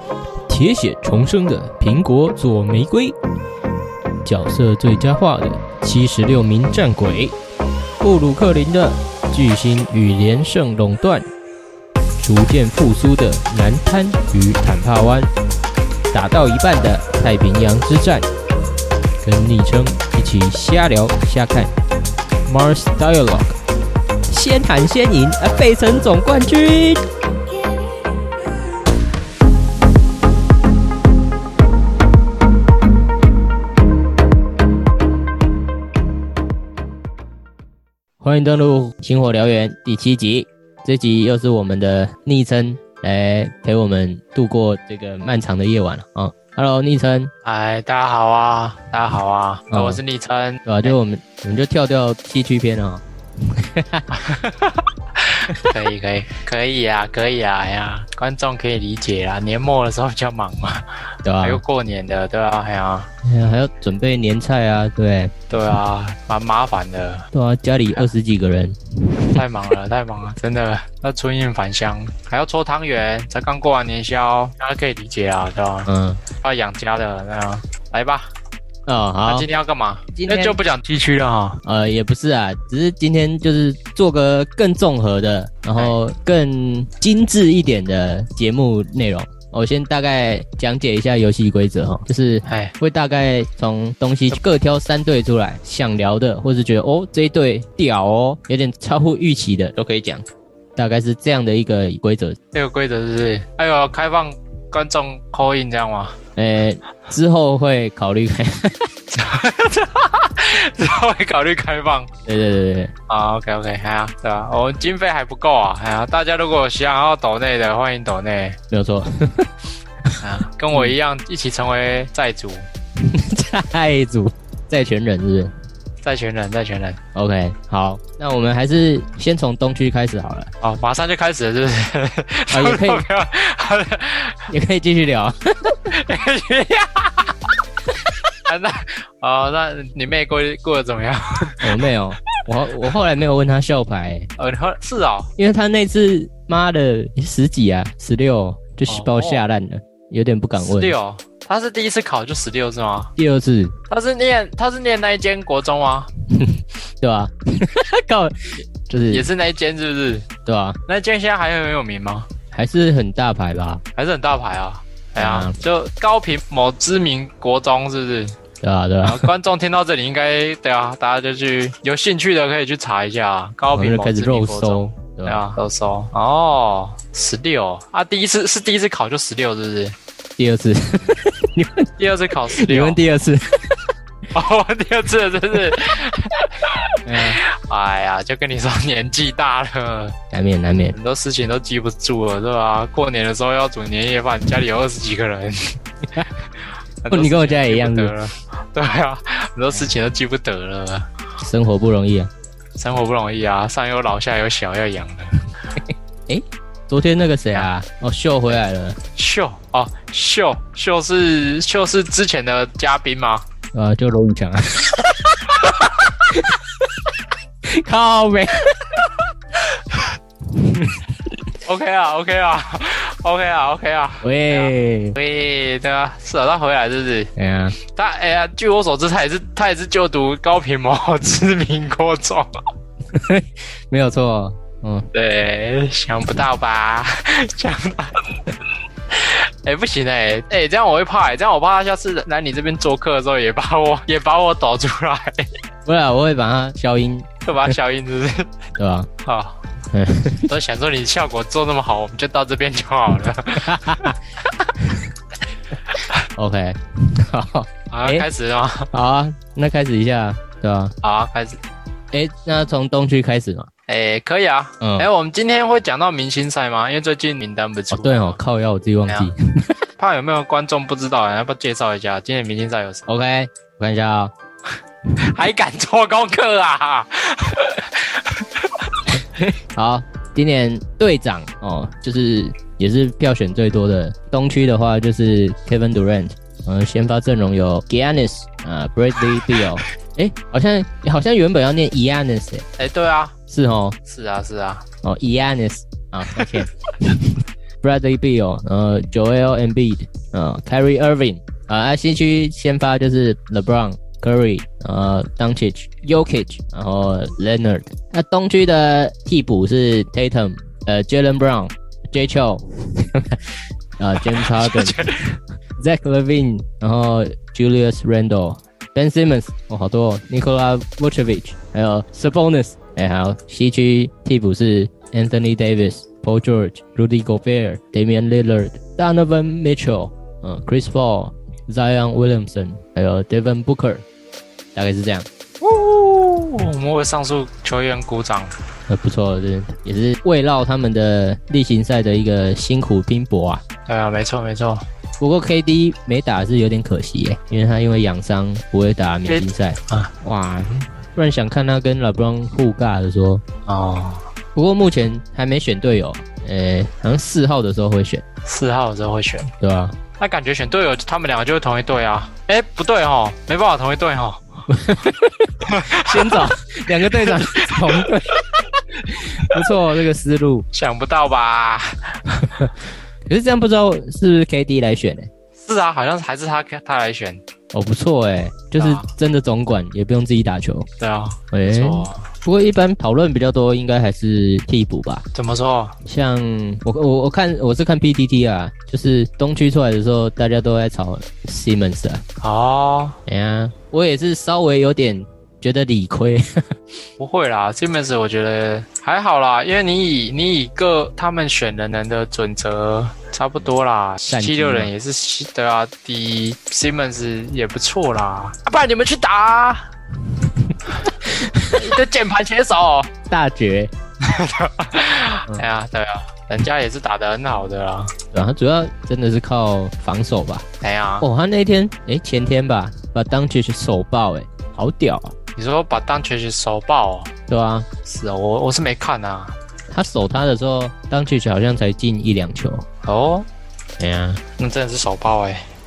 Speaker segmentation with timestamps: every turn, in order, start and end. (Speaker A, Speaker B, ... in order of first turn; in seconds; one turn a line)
Speaker A: 0.5-3.1
Speaker A: 4.2-7.3
Speaker A: 8.0-11.3
Speaker A: 12.2-15.3
Speaker A: 16.1-18.3
Speaker A: 19.2-21.7
Speaker A: 22.5-23.6
Speaker A: 24.3-27.1
Speaker A: 38.2-47.3
Speaker B: 47.4-51.0
Speaker A: 49.7-50.0
Speaker A: 50.6-54.0
Speaker B: 54.1-63.1
Speaker A: 61.2-61.6
Speaker A: 63.2-65.3
Speaker B: 65.5-67.3
Speaker A: 67.3-69.4
Speaker B: 69.3-78.3
Speaker A: 75.9-76.2
Speaker A: 78.8-79.5
Speaker B: 79.2-81.6
Speaker A: 80.1-80.6
Speaker A: 81.6-100.2
Speaker B: 92.4-92.7
Speaker A: 100.8-102.4
Speaker B: 102.5-106.2
Speaker A: 106.3-108.9
Speaker B: 109.1-112.1
Speaker A: 112.2-112.9
Speaker B: 113.1-118.6
Speaker A: 118.7-119.5
Speaker B: 120.2-122.7
Speaker A: 123.0-125.5
Speaker B: 126.0-127.0
Speaker A: 127.1-130.5
Speaker B: 130.6-134.5
Speaker A: 132.5-133.0
Speaker A: 134.5-135.9
Speaker B: 135.9-137.3
Speaker B: 138.4-141.9
Speaker A: 141.6-144.3
Speaker B: 144.4-145.3
Speaker A: 145.4-150.9
Speaker B: 148.9-149.4
Speaker B: 150.6-153.1
Speaker A: 153.2-153.8
Speaker B: 153.9-156.1
Speaker A: 156.3-159.3
Speaker B: 159.1-160.3
Speaker A: 160.4-160.8
Speaker B: 160.9-162.3
Speaker A: 162.5-163.8
Speaker B: 163.9-168.4
Speaker A: 165.2-165.6
Speaker A: 168.6-169.3
Speaker B: 169.0-179.9
Speaker A: 173.7-175.4
Speaker A: 180.4-181.9
Speaker B: 182.0-183.0
Speaker A: 182.5-183.9
Speaker B: 184.3-190.2
Speaker A: 187.0-187.4
Speaker A: 190.3-190.9
Speaker B: 190.9-196.2
Speaker B: 197.0-201.1
Speaker A: 197.1-198.1
Speaker A: 201.4-202.3
Speaker B: 202.8-205.4
Speaker A: 206.3-209.0
Speaker B: 209.2-213.4
Speaker A: 213.7-216.8
Speaker A: 217.6-219.2
Speaker A: 220.5-221.1
Speaker B: 221.6-232.5
Speaker A: 224.2-225.2
Speaker A: 227.3-227.8
Speaker A: 233.1-235.1
Speaker B: 235.1-238.4
Speaker B: 239.1-245.5
Speaker A: 245.8-247.7
Speaker B: 247.4-248.6
Speaker A: 248.8-249.1
Speaker B: 249.2-249.6
Speaker A: 249.9-250.5
Speaker B: 250.5-254.2
Speaker A: 253.6-254.2
Speaker A: 254.8-255.1
Speaker A: 256.3-258.3
Speaker B: 257.9-258.9
Speaker A: 258.9-260.9
Speaker B: 261.0-261.6
Speaker A: 262.1-263.7
Speaker B: 263.9-268.4
Speaker A: 264.8-265.1
Speaker A: 267.9-269.8
Speaker B: 270.0-273.1
Speaker A: 273.1-274.3
Speaker B: 275.2-279.2
Speaker A: 279.7-292.6
Speaker B: 292.8-293.4
Speaker A: 293.5-294.0
Speaker B: 294.1-294.9
Speaker A: 295.0-334.0
Speaker B: 314.2-315.3
Speaker A: 334.8-335.3
Speaker B: 335.6-338.5
Speaker A: 338.9-343.6
Speaker B: 343.9-344.9
Speaker A: 345.2-353.4
Speaker B: 349.3-350.1
Speaker B: 353.7-354.2
Speaker A: 354.6-358.2
Speaker B: 358.4-359.5
Speaker A: 359.6-360.0
Speaker B: 360.2-364.6
Speaker A: 364.7-370.7
Speaker B: 365.6-369.8
Speaker B: 370.7-372.7
Speaker A: 373.2-375.3
Speaker B: 375.6-377.4
Speaker A: 377.7-380.9
Speaker B: 378.8-379.1
Speaker B: 381.0-382.3
Speaker A: 381.5-385.2
Speaker B: 385.3-386.0
Speaker A: 386.1-392.2
Speaker B: 392.4-393.2
Speaker A: 393.3-396.7
Speaker B: 397.2-409.9
Speaker A: 404.3-404.9
Speaker A: 411.1-411.8
Speaker B: 411.7-413.1
Speaker A: 413.3-413.9
Speaker B: 414.2-418.1
Speaker A: 418.3-420.7
Speaker B: 420.8-421.3
Speaker A: 421.2-425.3
Speaker B: 425.6-427.3
Speaker A: 427.5-427.9
Speaker B: 428.1-429.6
Speaker A: 429.9-432.9
Speaker B: 433.0-433.5
Speaker A: 434.0-434.4
Speaker B: 434.6-435.6